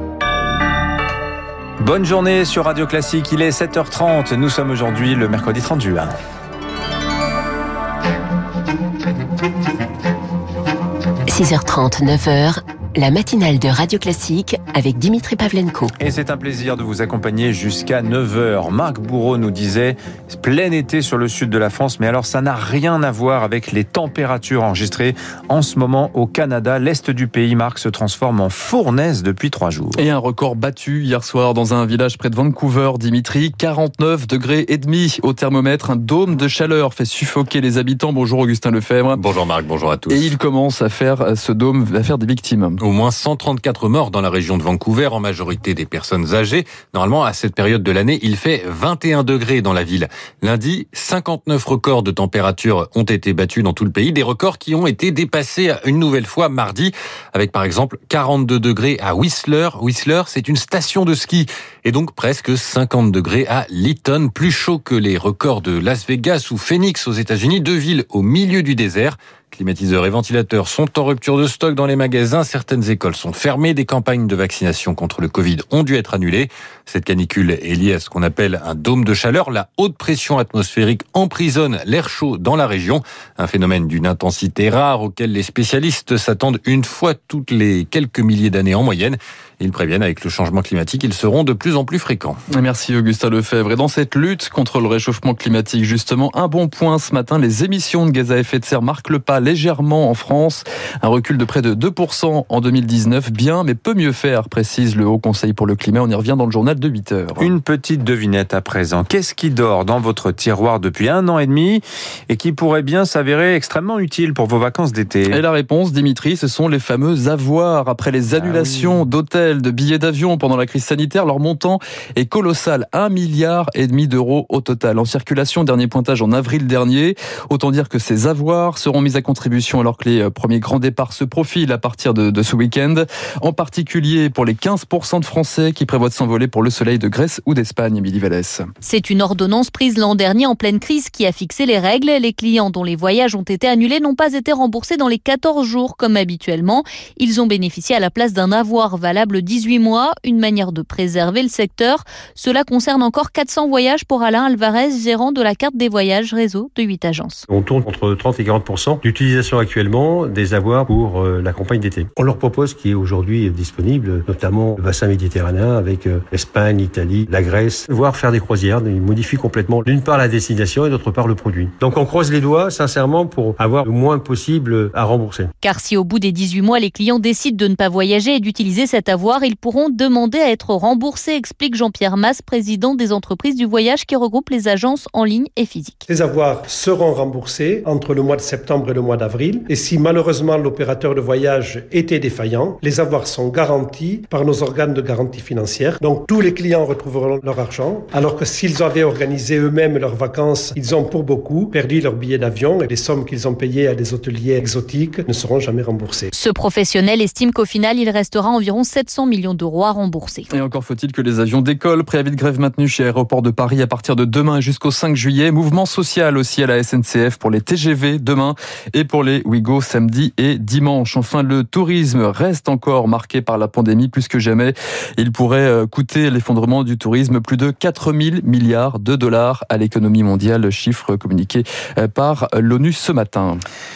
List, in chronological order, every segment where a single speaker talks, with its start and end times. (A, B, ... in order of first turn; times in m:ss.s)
0:01.8-0:06.1 A
0:11.3-0:15.9 B
0:16.0-0:30.0 A
0:30.0-0:39.2 C
0:39.2-0:40.3 D
0:40.1-0:42.8 C
0:42.8-1:32.4 D
1:32.5-1:47.5 C
1:47.4-1:55.4 A
1:55.3-2:18.7 C
1:58.4-1:59.0 A
2:18.8-2:37.4 E
2:37.5-2:55.5 F
2:55.6-3:06.0 E
3:06.1-3:26.3 G
3:26.3-3:30.5 E
3:30.5-3:53.6 C